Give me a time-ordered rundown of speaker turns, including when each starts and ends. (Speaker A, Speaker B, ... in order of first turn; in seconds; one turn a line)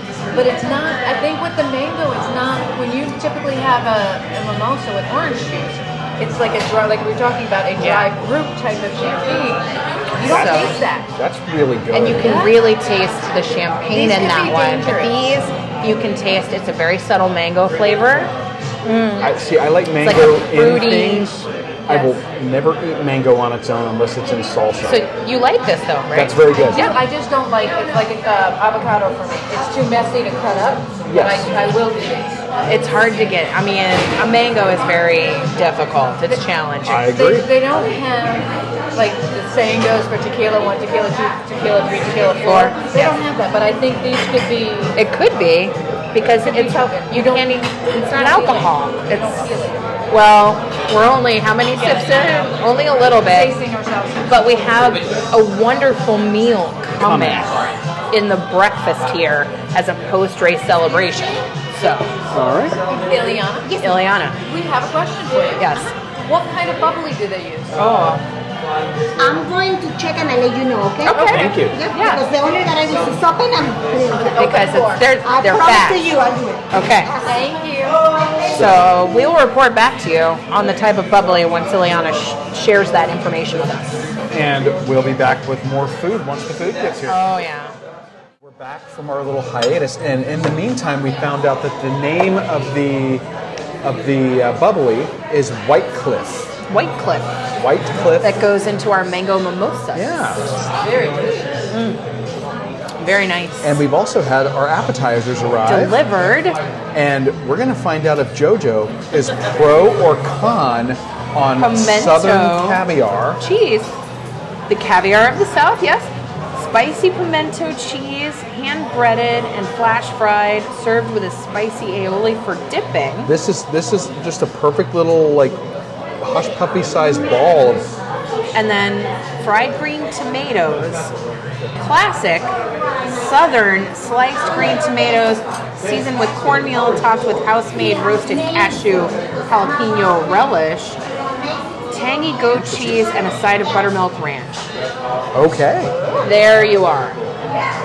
Speaker A: 0.3-11.1
Speaker B: 7.8-8.1
Speaker B: 10.3-10.7
Speaker C: 10.3-12.4
Speaker B: 11.9-18.3
Speaker A: 12.2-12.5
Speaker A: 13.9-15.2
Speaker B: 18.8-19.3
Speaker C: 19.2-21.3
Speaker B: 20.0-21.5
Speaker C: 21.9-25.0
Speaker B: 24.8-27.0
Speaker C: 26.1-26.9
Speaker A: 26.5-32.5
Speaker C: 31.1-31.5
Speaker B: 32.6-37.0
Speaker C: 36.8-37.5
Speaker A: 37.0-45.0
Speaker B: 42.4-43.2
Speaker B: 45.0-49.4
Speaker A: 46.3-50.0
Speaker B: 50.1-53.5
Speaker A: 51.8-54.9
Speaker B: 54.3-62.1
Speaker C: 57.0-57.7
Speaker C: 62.3-62.8
Speaker A: 62.9-63.8
Speaker D: 63.6-64.0
Speaker B: 63.8-64.4
Speaker A: 64.4-68.0
Speaker B: 65.6-66.0
Speaker D: 69.2-74.5
Speaker B: 71.0-72.2
Speaker C: 71.3-71.8
Speaker A: 74.1-75.1
Speaker B: 74.4-76.1
Speaker D: 75.2-77.4
Speaker B: 76.7-77.1
Speaker A: 77.2-78.0
Speaker B: 78.5-84.0
Speaker C: 78.5-78.9
Speaker C: 84.3-87.2
Speaker B: 87.0-87.7
Speaker C: 88.4-93.2
Speaker C: 93.8-96.5
Speaker B: 96.7-97.3
Speaker C: 97.5-98.4
Speaker B: 98.2-100.2
Speaker C: 99.9-100.5
Speaker A: 100.6-101.7
Speaker B: 101.7-102.0
Speaker B: 103.0-103.8
Speaker C: 103.6-106.0
Speaker B: 105.6-106.6
Speaker C: 106.9-113.4
Speaker B: 111.6-112.8
Speaker B: 113.4-114.0
Speaker B: 114.7-123.3
Speaker C: 123.2-125.6
Speaker C: 126.2-128.0
Speaker B: 128.5-131.1
Speaker B: 131.8-141.0
Speaker D: 138.5-139.1
Speaker B: 141.9-144.7
Speaker C: 142.5-143.0
Speaker C: 145.3-145.9
Speaker B: 146.2-147.2